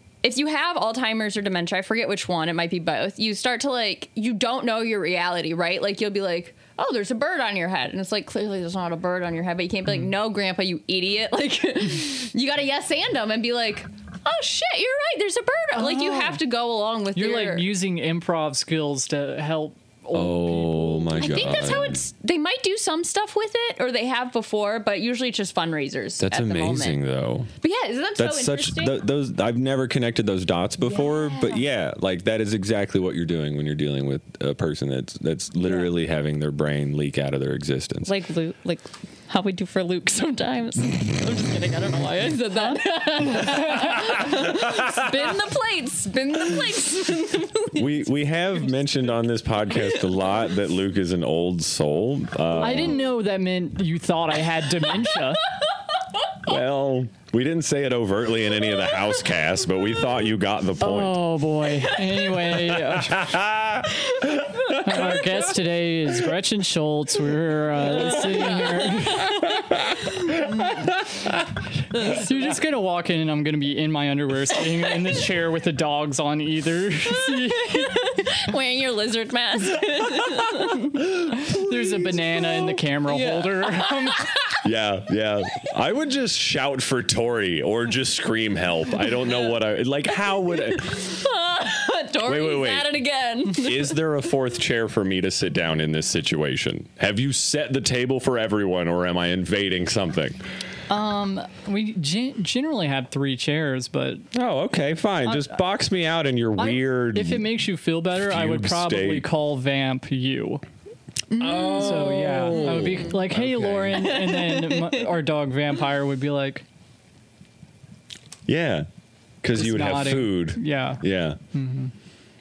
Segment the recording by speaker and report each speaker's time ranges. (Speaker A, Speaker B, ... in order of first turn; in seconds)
Speaker A: 0.2-17.6, 21.2-27.0, 27.6-29.0, 30.9-31.6, 35.6-35.9, 38.1-48.1, 49.8-50.1, 67.9-70.7, 71.9-72.4, 77.2-81.4, 83.0-84.6, 89.0-89.6, 90.2-94.0, 111.3-113.1, 114.0-115.0
Speaker B: 15.7-16.4, 17.1-21.9, 42.5-44.0, 52.6-55.5, 60.8-63.3, 64.8-69.5, 71.9-78.0, 81.4-84.3, 100.9-104.3, 106.6-110.6, 111.7-116.6, 119.5-121.9
Speaker C: 20.1-22.0, 26.2-27.5, 28.2-38.1, 47.7-53.0, 56.4-61.2, 62.5-65.3, 69.6-69.9, 70.5-71.3, 81.0-82.4, 84.6-91.1, 92.2-92.9, 93.5-100.4, 104.3-107.5, 108.1-109.3, 111.4-114.2, 118.5-118.9, 119.4-121.4